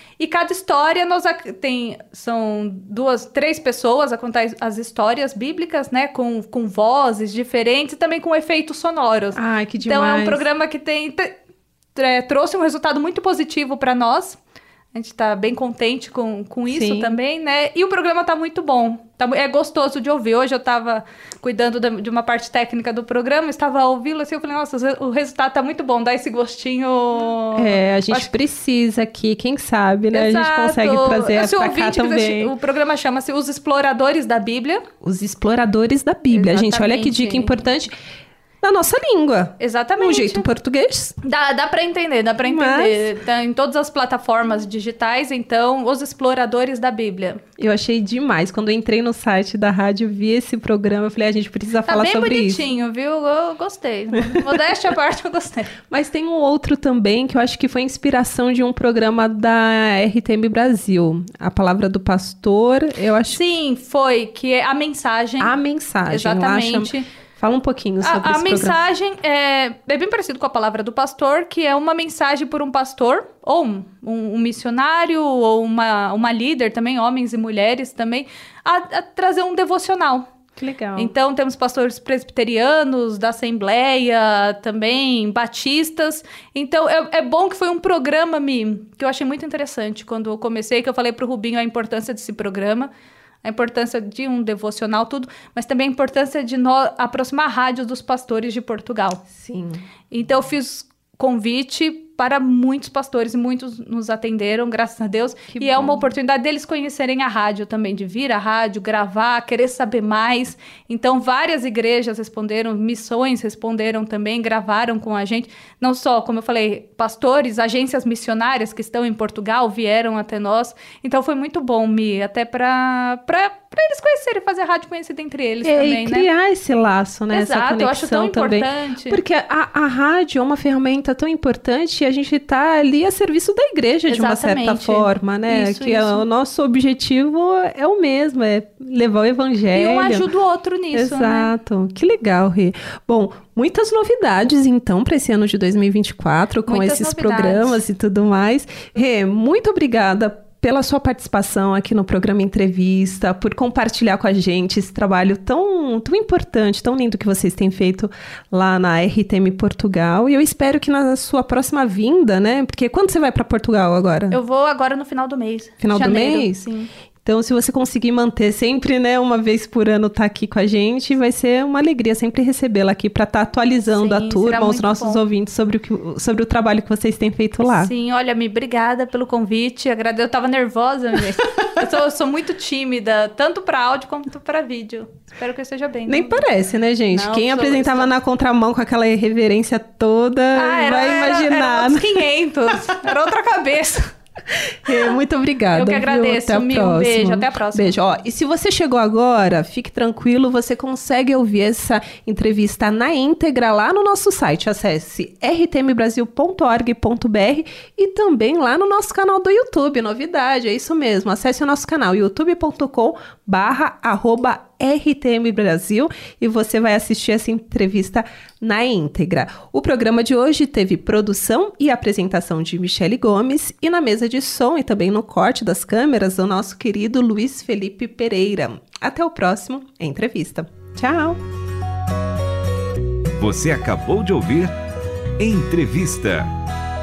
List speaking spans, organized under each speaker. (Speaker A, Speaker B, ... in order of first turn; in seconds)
Speaker A: 0.2-11.4, 11.9-14.4, 14.9-28.3, 30.1-34.8, 36.3-37.6, 39.6-40.5, 41.2-47.4, 51.8-55.8, 63.3-65.5, 66.0-67.1, 68.0-80.3, 81.0-92.9, 93.4-99.2, 100.1-126.3, 127.3-129.2, 134.1-136.2, 139.7-141.5, 146.7-147.8, 164.3-166.9, 173.9-175.2, 177.7-186.5, 187.1-188.1, 190.5-194.1, 195.7-198.0
Speaker B: 9.3-10.4, 16.7-17.1, 27.5-32.5, 35.0-37.9, 38.6-41.1, 42.4-43.1, 47.6-52.6, 55.9-63.4, 65.4-68.8, 80.6-81.1, 99.3-99.8, 105.5-106.0, 125.6-140.3, 140.9-164.4, 165.8-166.6, 167.2-177.9, 186.1-192.2, 194.8-231.4
Speaker C: 233.4-234.7, 235.4-236.5